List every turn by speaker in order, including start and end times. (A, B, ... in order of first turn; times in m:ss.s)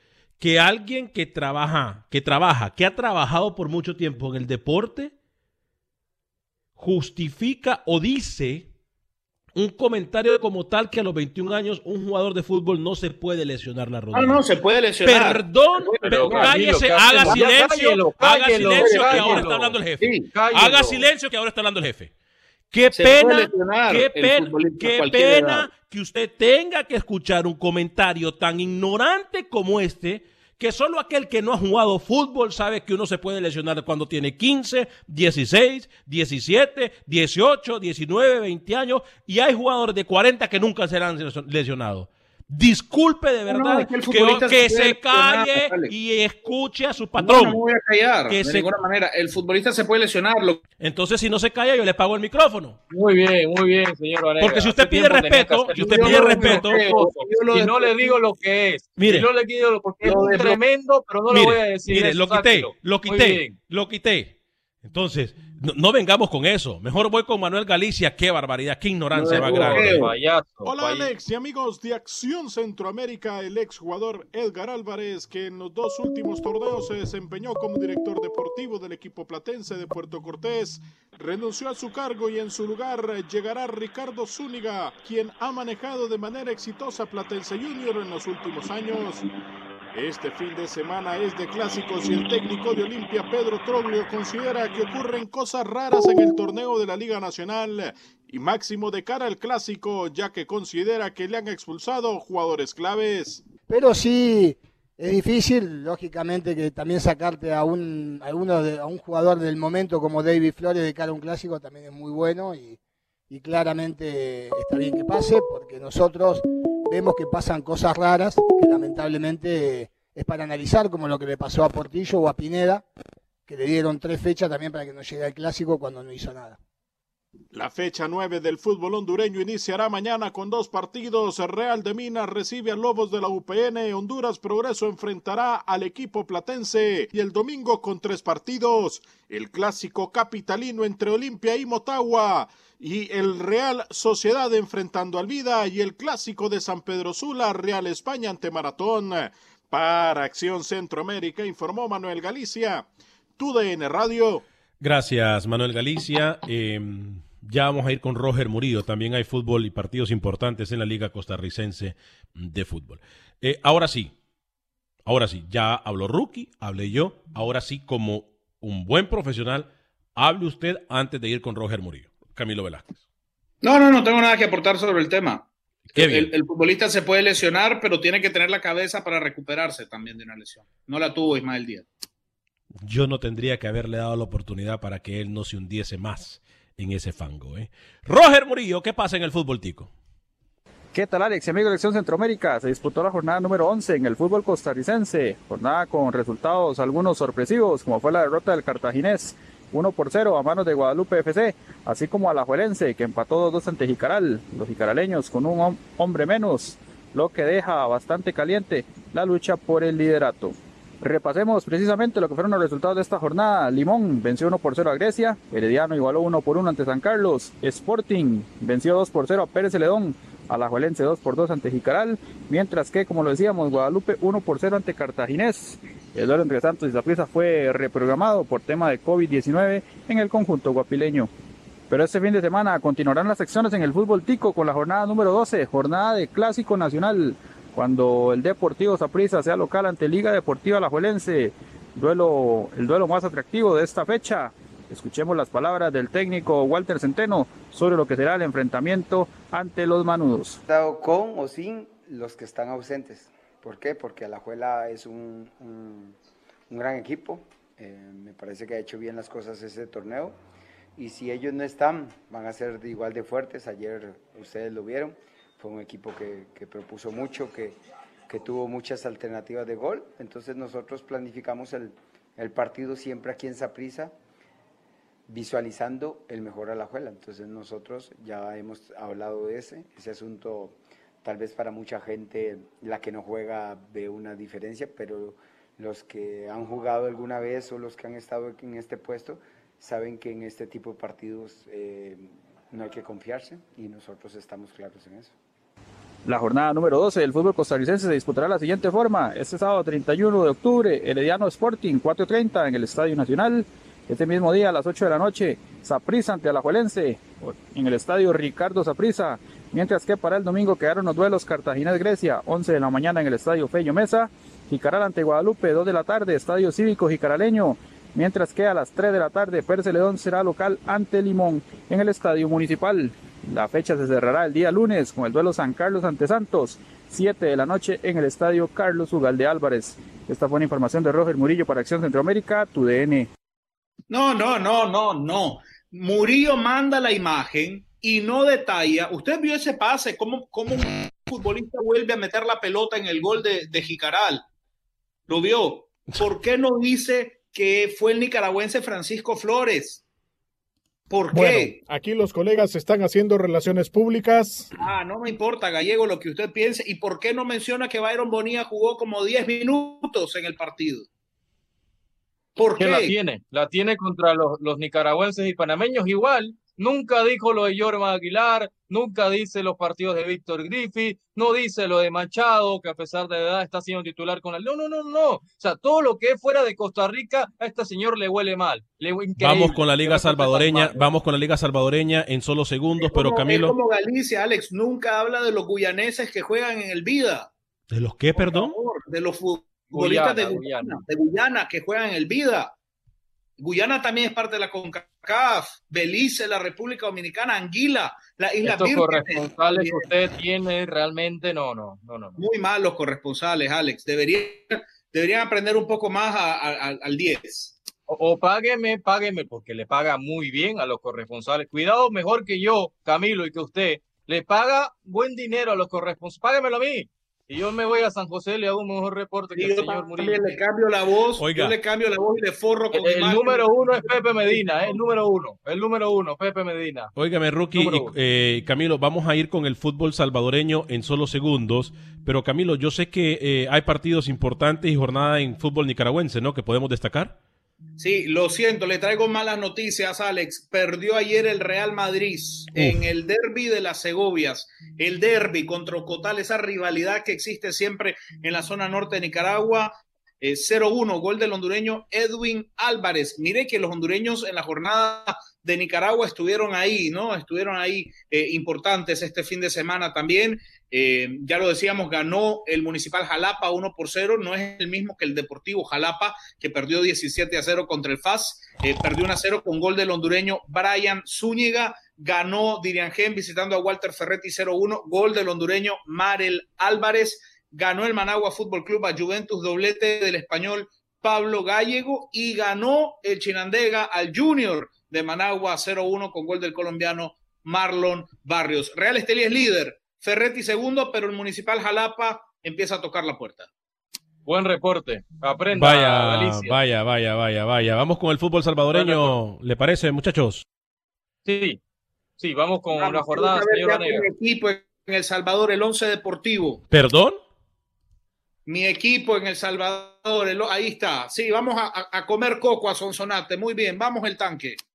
0:00.4-0:05.1 A
0:06.8-0:08.7 A
0:09.5-0:14.4 A
0:14.1-0:16.6 B
0:15.0-0:22.1 A
0:16.0-0:19.8 C
0:18.7-0:19.5 B
0:20.0-0:20.3 B
0:20.3-0:21.1 C
0:22.7-0:47.6 A
0:22.9-0:25.7 B
0:43.5-0:45.9 B
0:47.2-0:50.6 B
0:48.3-0:48.7 A
0:50.8-0:52.8 A
0:52.9-1:03.6 C
0:54.4-0:56.9 A
0:55.7-0:58.2 B
0:59.0-0:59.2 A
1:00.0-1:00.6 B
1:01.3-1:10.1 A
1:09.1-1:10.1 B
1:09.3-1:11.1 C
1:10.6-1:29.3 D
1:29.9-1:43.4 D
1:43.7-1:52.8 E
1:53.3-2:02.8 E
2:03.5-2:06.6 E
2:07.5-2:34.4 D
2:34.8-2:44.1 A
2:45.0-2:52.9 A
2:53.6-3:01.8 B
2:55.9-2:56.3 A
3:02.8-3:09.9 A
3:10.9-3:51.3 F
3:51.9-4:10.6 F
4:10.6-4:16.1 G
4:16.7-4:20.3 G
4:21.0-4:27.7 G
4:28.3-4:34.1 G
4:35.3-4:55.4 G
4:56.2-5:33.3 F
5:34.1-5:44.4 B
5:45.3-5:50.0 B
5:51.1-5:51.8 B
5:51.3-5:54.7 D
5:54.8-6:01.1 B
6:02.6-6:03.1 B
6:02.8-6:21.1 C
6:19.4-6:23.8 A
6:23.0-6:27.5 B
6:27.9-6:28.7 A
6:28.3-6:32.7 B
6:29.9-6:31.0 C
6:33.6-6:40.1 B
6:38.6-6:42.4 C
6:42.4-6:47.8 B
6:48.1-7:00.4 C
6:59.6-7:05.0 B
7:01.4-7:01.7 A
7:02.9-7:07.1 C
7:07.2-7:17.4 A
7:07.7-7:08.1 C
7:18.0-8:13.7 B
7:22.8-7:23.0 A
8:14.4-8:16.8 C
8:15.8-8:20.6 A
8:18.9-8:19.4 C
8:21.4-8:21.8 C
8:22.4-8:24.3 C
8:23.0-8:26.8 B
8:26.9-8:27.4 A
8:28.6-8:34.8 B